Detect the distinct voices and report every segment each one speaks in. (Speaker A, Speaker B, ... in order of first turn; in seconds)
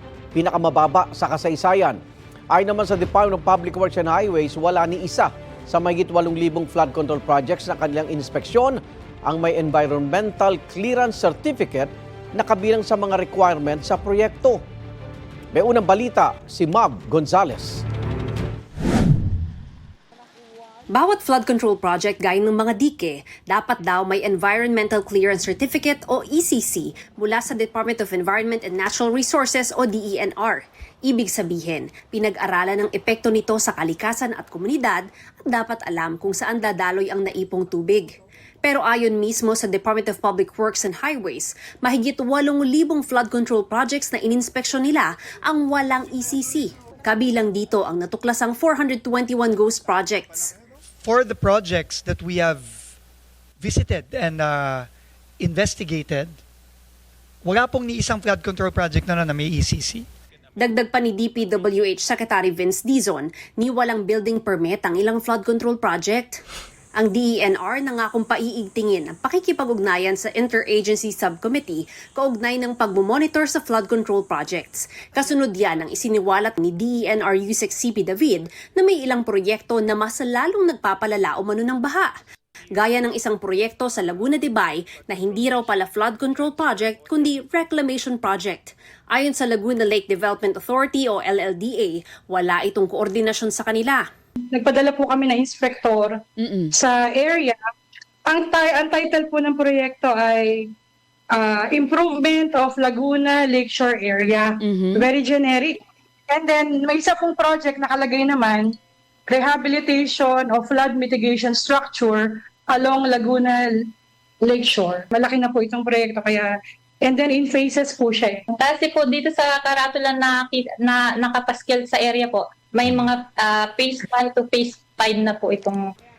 Speaker A: 0.3-2.0, 2.5-14.6, 15.5-17.9
Speaker B: 20.9-50.5, 60.6-66.4, 67.0-82.2, 82.7-94.1, 96.4-96.7, 104.6-105.1
Speaker C: 51.0-52.9, 53.6-54.9, 55.4-56.4, 57.4-60.1
Speaker D: 94.5-96.2, 96.7-97.6, 98.3-100.7, 101.3-105.8, 106.3-108.8, 109.3-113.6, 114.5-116.5, 117.0-118.5
Speaker E: 118.6-122.4, 123.1-125.8